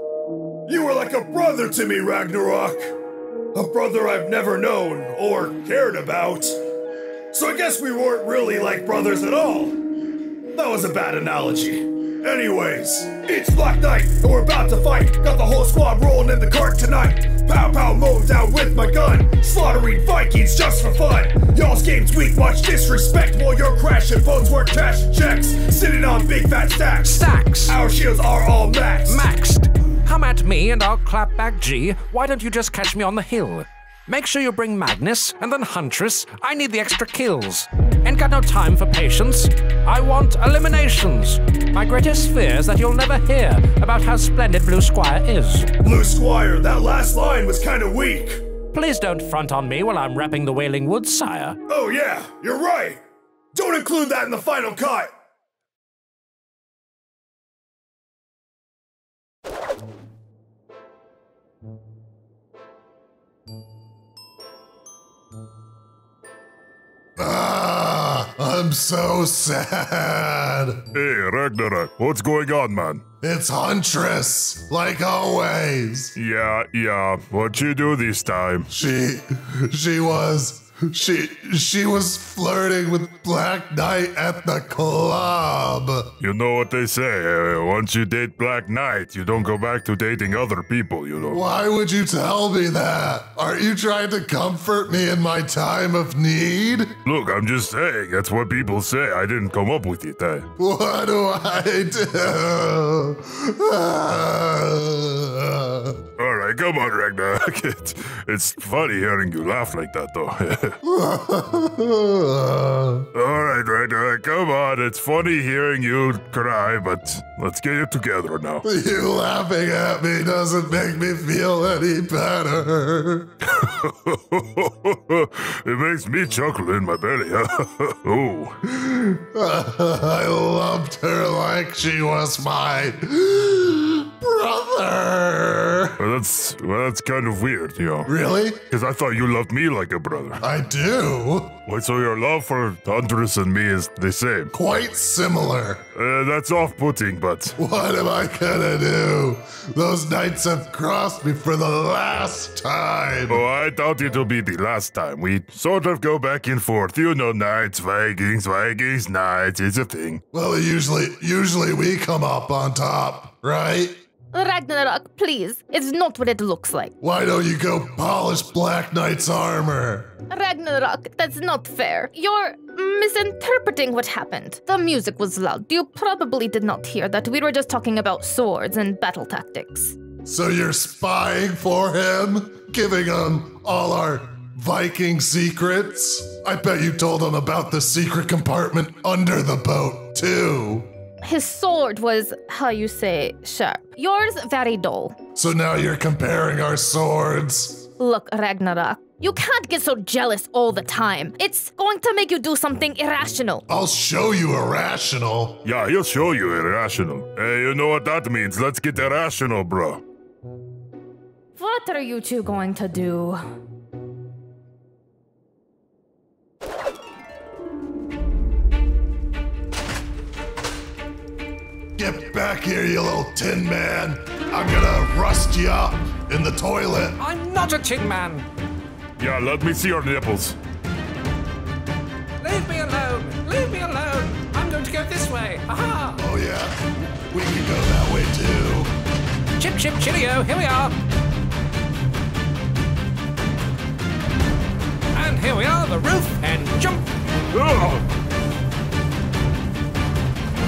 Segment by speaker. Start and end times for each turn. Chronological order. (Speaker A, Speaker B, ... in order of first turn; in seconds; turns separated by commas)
Speaker A: 0.7-2.9, Speaker A: 3.5-6.6, Speaker A: 7.3-9.8, Speaker A: 10.5-29.2, Speaker B: 27.0-27.8, Speaker B: 29.0-45.7, Speaker A: 45.8-48.4, Speaker B: 48.7-51.6, Speaker A: 51.7-53.0, Speaker A: 53.5-55.1, Speaker C: 67.2-70.8, Speaker D: 70.9-73.0, Speaker C: 73.2-76.1, Speaker D: 76.2-78.7, Speaker C: 78.7-86.1, Speaker D: 86.2-91.4, Speaker C: 91.3-97.0, Speaker D: 97.0-100.5, Speaker C: 100.6-106.0, Speaker D: 106.2-110.8, Speaker C: 110.8-113.0, Speaker D: 113.1-118.6, Speaker C: 118.6-123.3, Speaker D: 123.5-128.6, Speaker C: 128.7-136.0, Speaker D: 136.0-138.1, Speaker C: 138.1-138.6, Speaker D: 138.7-140.4, Speaker C: 140.4-141.6, Speaker D: 141.7-144.5, Speaker C: 144.5-145.8, Speaker D: 145.9-147.6, Speaker C: 147.6-153.4, Speaker D: 153.3-160.2, Speaker C: 160.3-164.0, Speaker E: 164.3-166.9, Speaker C: 167.0-170.1, Speaker E: 170.3-179.9, Speaker C: 180.2-190.9, Speaker E: 191.2-195.2, Speaker C: 195.3-197.8, Speaker E: 198.0-203.6, Speaker C: 203.7-205.6, Speaker D: 205.6-210.0, Speaker E: 211.5-213.4, Speaker C: 222.0-227.2, Speaker B: 227.2-228.4, Speaker D: 229.2-230.6, Speaker B: 232.4-236.2, Speaker C: 236.2-236.8, Speaker C: 237.3-238.9, Speaker B: 239.6-241.0, Speaker B: 245.1-247.1, Speaker D: 247.5-248.0